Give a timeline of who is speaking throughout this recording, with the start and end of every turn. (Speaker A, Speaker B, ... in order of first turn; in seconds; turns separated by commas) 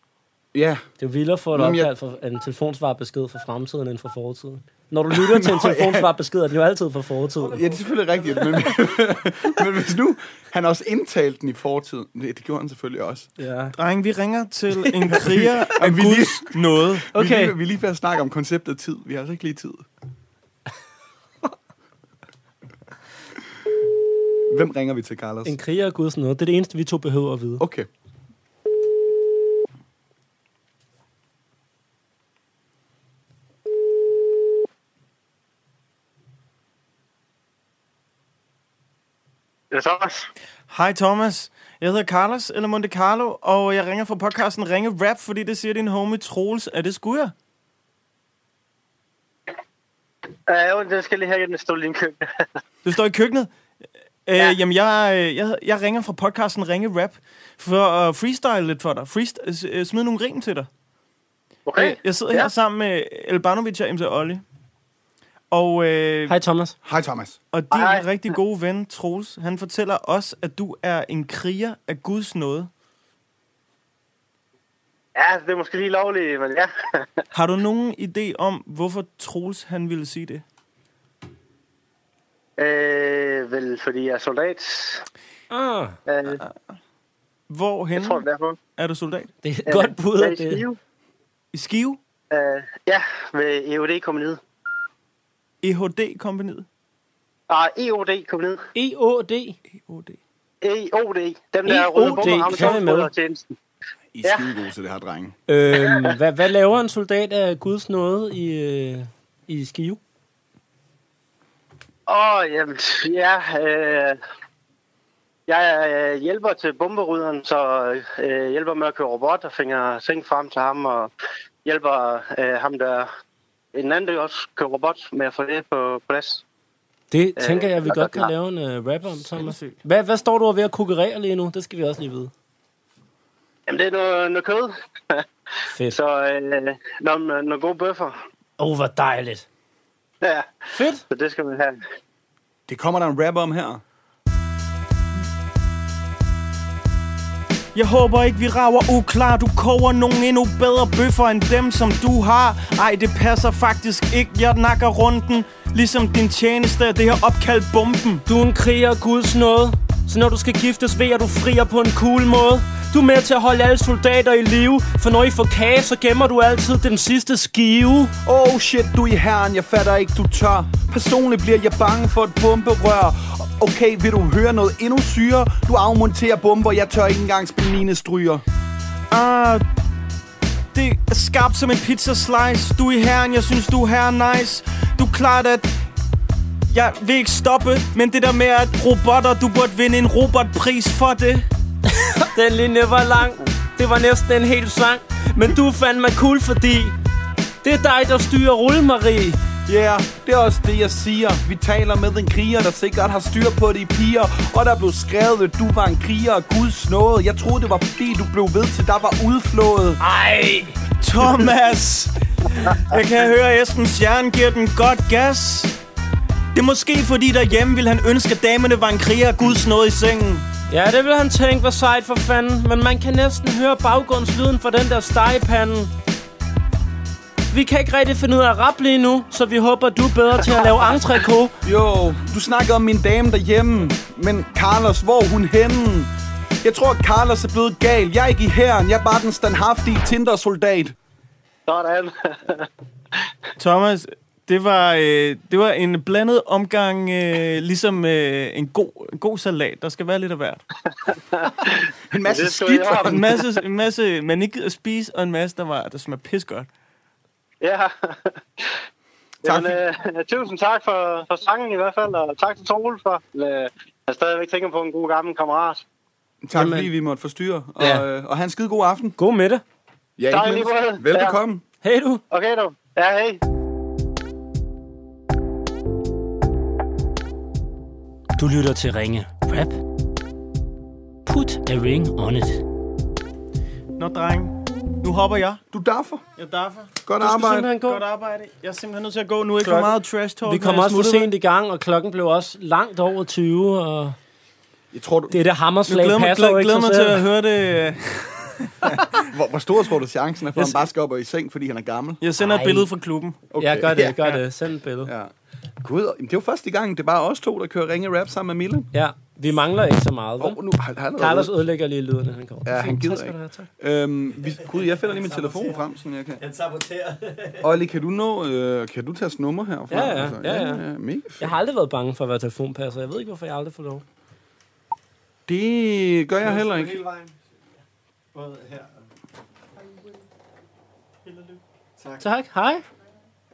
Speaker A: 0.5-0.8, Speaker B: 1.0-7.6, Speaker A: 1.5-1.9, Speaker A: 5.1-6.1, Speaker A: 7.5-13.3, Speaker C: 7.5-8.5, Speaker B: 13.4-13.7, Speaker D: 13.8-17.1, Speaker A: 15.1-19.9, Speaker B: 17.1-17.5, Speaker A: 24.5-25.6, Speaker B: 25.4-27.6, Speaker A: 27.6-27.9, Speaker E: 39.7-40.3, Speaker D: 40.7-47.3, Speaker E: 50.5-52.2, Speaker D: 52.8-53.5, Speaker D: 54.2-60.7, Speaker E: 61.6-62.5, Speaker D: 61.8-64.4, Speaker D: 65.5-66.3, Speaker B: 66.3-66.8, Speaker A: 66.8-67.4, Speaker D: 67.5-72.7, Speaker E: 67.7-68.1, Speaker E: 75.2-77.0, Speaker D: 77.3-80.4, Speaker E: 82.6-85.0, Speaker B: 85.5-86.0, Speaker E: 86.1-86.4, Speaker D: 86.3-86.5, Speaker D: 87.5-88.2, Speaker E: 88.0-88.6, Speaker D: 88.8-89.3, Speaker B: 89.4-90.6, Speaker E: 89.7-90.8, Speaker D: 91.5-92.0, Speaker E: 92.3-94.4, Speaker D: 95.6-96.7, Speaker E: 97.5-98.7, Speaker B: 98.7-99.6, Speaker D: 99.7-100.2, Speaker E: 100.6-103.5, Speaker B: 101.6-103.1, Speaker A: 102.3-102.6, Speaker A: 104.1-105.4, Speaker E: 104.2-104.5, Speaker B: 105.5-110.0, Speaker E: 112.1-114.2, Speaker E: 115.5-121.1, Speaker E: 121.6-123.1, Speaker E: 123.7-126.4, Speaker B: 127.1-132.3, Speaker E: 127.4-128.3, Speaker D: 129.3-129.8, Speaker E: 133.7-135.2, Speaker B: 135.7-136.0, Speaker E: 135.9-138.2, Speaker B: 138.6-139.4, Speaker E: 140.2-140.5, Speaker B: 140.7-141.0, Speaker E: 141.1-141.8, Speaker A: 142.7-143.8, Speaker D: 147.7-158.2, Speaker B: 158.3-168.1, Speaker A: 168.2-178.4, Speaker D: 179.1-179.6, Speaker D: 180.7-185.7, Speaker D: 186.7-191.4, Speaker B: 192.2-196.9, Speaker B: 197.6-199.4, Speaker A: 199.7-210.0, Speaker B: 210.0-210.8, Speaker D: 211.0-215.7, Speaker D: 216.5-220.5, Speaker B: 220.7-225.9, Speaker B: 227.5-231.5, Speaker A: 231.6-236.1, Speaker A: 236.6-240.9, Speaker E: 241.7-242.7, Speaker D: 243.6-250.6, Speaker E: 251.1-253.2, Speaker A: 252.1-253.4, Speaker D: 253.0-256.7, Speaker E: 257.6-258.7, Speaker E: 259.4-265.8, Speaker A: 259.4-259.8, Speaker A: 266.4-269.2, Speaker B: 266.5-266.9, Speaker B: 267.8-268.0, Speaker B: 269.2-269.6, Speaker A: 270.2-271.6, Speaker E: 270.3-271.4, Speaker B: 271.8-272.2, Speaker E: 272.3-273.4, Speaker B: 278.4-279.8, Speaker B: 281.2-282.6, Speaker D: 284.0-285.6, Speaker A: 285.7-286.2, Speaker D: 286.4-286.9, Speaker A: 287.1-287.7, Speaker B: 287.2-288.0, Speaker D: 287.6-291.3, Speaker B: 289.6-289.9, Speaker B: 290.4-294.1, Speaker A: 294.9-295.4, Speaker B: 295.3-297.2, Speaker D: 295.9-298.9, Speaker A: 298.9-302.2, Speaker D: 302.2-303.4, Speaker B: 302.4-302.9, Speaker A: 303.5-304.4, Speaker B: 303.6-305.1, Speaker A: 305.0-308.9, Speaker B: 308.9-310.6, Speaker A: 310.4-311.5, Speaker B: 311.2-313.7, Speaker A: 312.6-316.4, Speaker C: 314.4-315.8, Speaker C: 316.4-317.7, Speaker A: 317.6-321.5, Speaker B: 319.9-320.8, Speaker B: 321.4-324.0, Speaker A: 325.5-327.0, Speaker C: 326.4-327.3, Speaker C: 328.3-328.9, Speaker C: 332.0-332.2, Speaker B: 332.2-332.8